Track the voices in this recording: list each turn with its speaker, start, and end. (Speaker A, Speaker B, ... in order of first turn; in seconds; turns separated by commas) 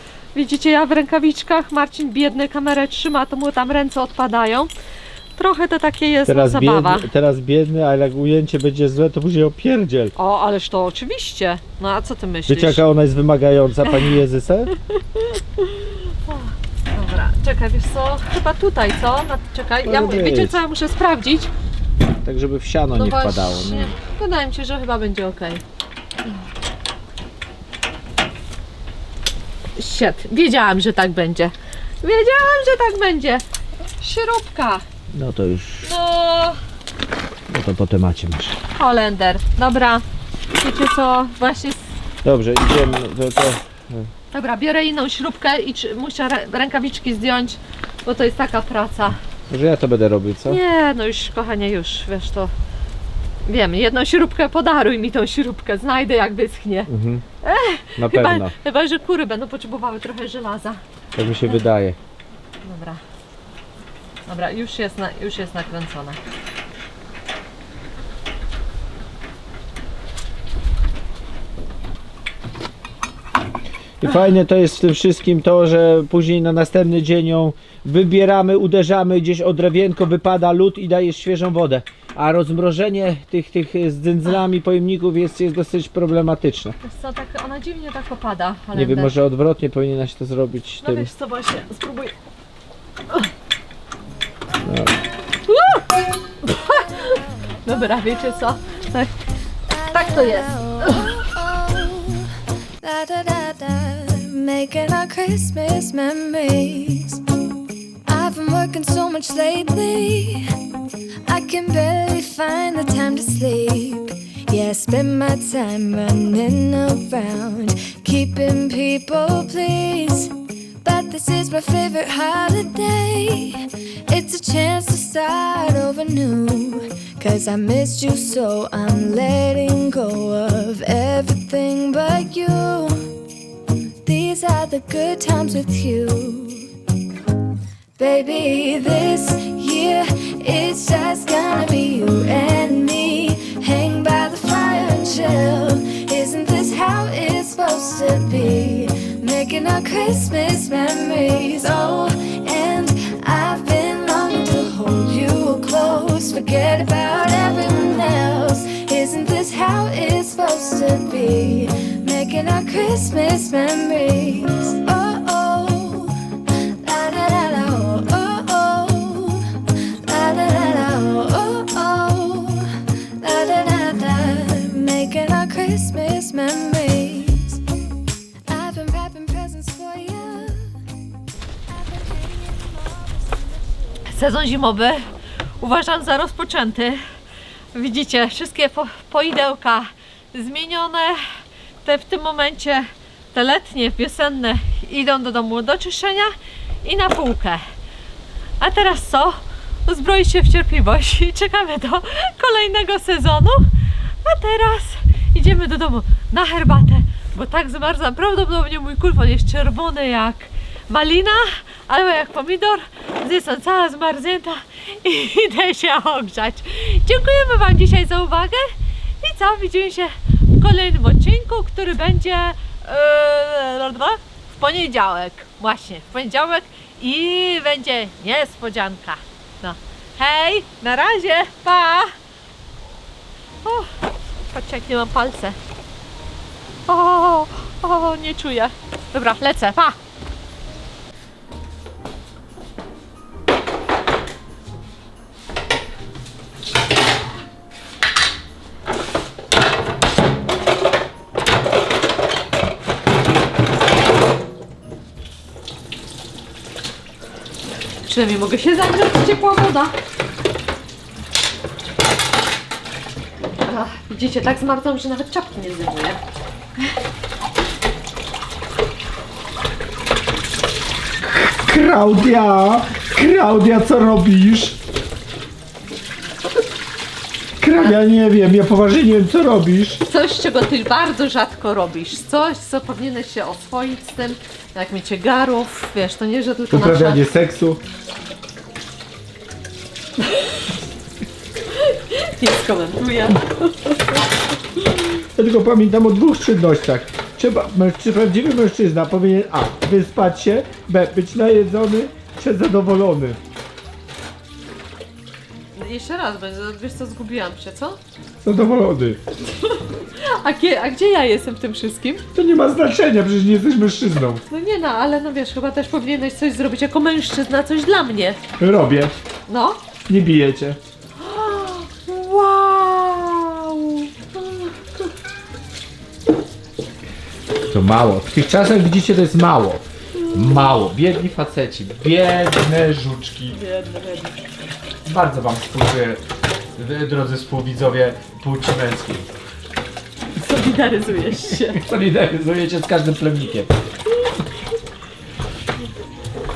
Speaker A: 0.3-4.7, Speaker A: 5.4-7.1, Speaker B: 6.3-10.2, Speaker A: 10.2-12.8, Speaker B: 12.5-14.7, Speaker A: 13.9-14.1, Speaker A: 14.9-21.5, Speaker B: 19.8-20.6, Speaker B: 22.2-23.9, Speaker A: 22.9-25.6, Speaker A: 29.8-33.4, Speaker A: 34.0-34.9, Speaker B: 35.1-35.9, Speaker A: 35.8-36.6, Speaker B: 37.5-38.6, Speaker A: 38.8-41.9, Speaker B: 42.2-44.1, Speaker A: 44.3-49.2, Speaker B: 49.5-50.6, Speaker A: 50.5-52.5, Speaker A: 53.5-56.9, Speaker B: 56.9-57.2, Speaker A: 57.4-60.8, Speaker B: 58.0-58.5, Speaker B: 61.2-62.0, Speaker A: 62.6-63.0, Speaker A: 64.3-66.2, Speaker B: 74.0-86.8, Speaker A: 86.8-89.2, Speaker B: 88.7-91.1, Speaker A: 90.8-92.1, Speaker B: 94.6-94.9, Speaker A: 95.5-95.9, Speaker A: 96.4-99.1, Speaker C: 99.7-107.2, Speaker A: 99.9-101.1, Speaker C: 108.1-110.5, Speaker C: 111.3-133.1, Speaker C: 134.0-136.7, Speaker C: 138.0-177.6, Speaker C: 178.5-180.8, Speaker C: 181.7-183.7, Speaker A: 184.1-185.1, Speaker A: 185.6-187.0, Speaker A: 187.7-196.3, Speaker A: 196.8-197.6, Speaker A: 198.6-203.7, Speaker A: 204.2-232.2, Speaker A: 233.6-233.9, Speaker A: 234.5-235.6, Speaker A: 236.9-240.0, Speaker A: 258.1-259.9, Speaker A: 263.6-266.2, Speaker B: 271.2-274.8, Speaker B: 277.6-280.0, Speaker A: 280.1-287.2, Speaker B: 286.7-287.8, Speaker A: 290.3-290.6, Speaker A: 291.7-294.2, Speaker B: 295.4-303.4, Speaker A: 305.8-308.0, Speaker B: 308.4-309.2, Speaker A: 309.6-312.2, Speaker B: 312.4-314.4, Speaker A: 314.5-318.4, Speaker B: 318.6-319.2, Speaker A: 319.5-319.8, Speaker B: 320.1-320.8, Speaker A: 321.2-324.9, Speaker B: 327.7-333.6, Speaker A: 330.2-330.6, Speaker A: 333.5-334.3, Speaker B: 335.1-336.2, Speaker B: 336.8-339.3, Speaker A: 340.4-341.8, Speaker B: 341.6-343.7